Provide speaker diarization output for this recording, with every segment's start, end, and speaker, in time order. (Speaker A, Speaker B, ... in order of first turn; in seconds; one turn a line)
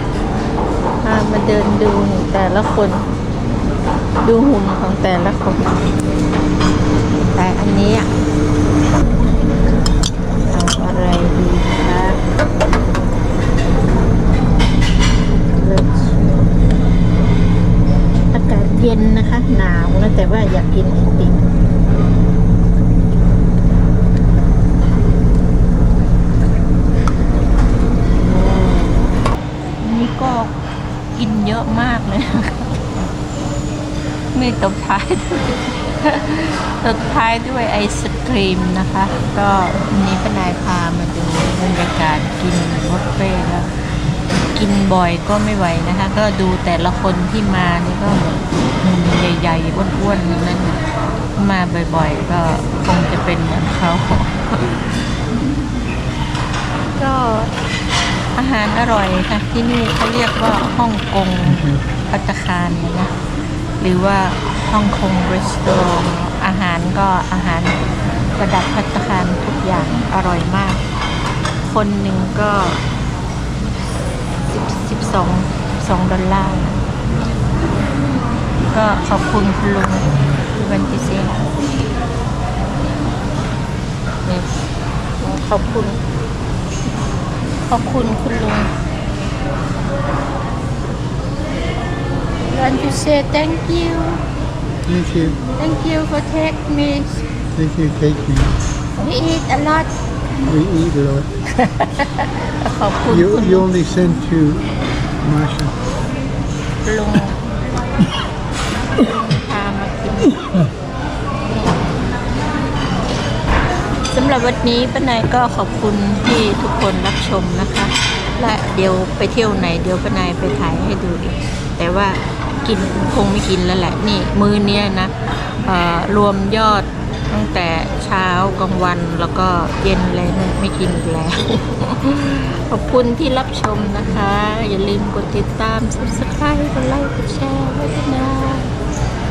Speaker A: 1.0-3.1
Speaker A: 4.2-5.8
Speaker A: 7.3-8.1
Speaker A: 10.4-12.2
Speaker A: 15.3-16.6
Speaker A: 18.3-21.4
Speaker A: 28.1-29.3
Speaker A: 29.8-30.6
Speaker A: 31.1-32.8
Speaker A: 34.3-43.7
Speaker A: 44.5-50.9
Speaker A: 51.4-54.7
Speaker A: 57.0-57.5
Speaker A: 58.4-63.1
Speaker A: 63.8-67.8
Speaker A: 68.3-70.8
Speaker A: 71.6-72.8
Speaker A: 74.5-76.8
Speaker A: 78.7-81.5
Speaker A: 85.2-86.0
Speaker A: 87.7-88.7
Speaker A: 92.5-94.2
Speaker B: 94.8-95.4
Speaker A: 95.6-97.2
Speaker B: 97.6-98.6
Speaker A: 99.0-99.9
Speaker B: 100.4-101.3
Speaker A: 101.6-103.7
Speaker B: 103.1-104.7
Speaker B: 105.2-105.8
Speaker A: 106.8-107.4
Speaker A: 109.0-110.6
Speaker A: 114.1-138.7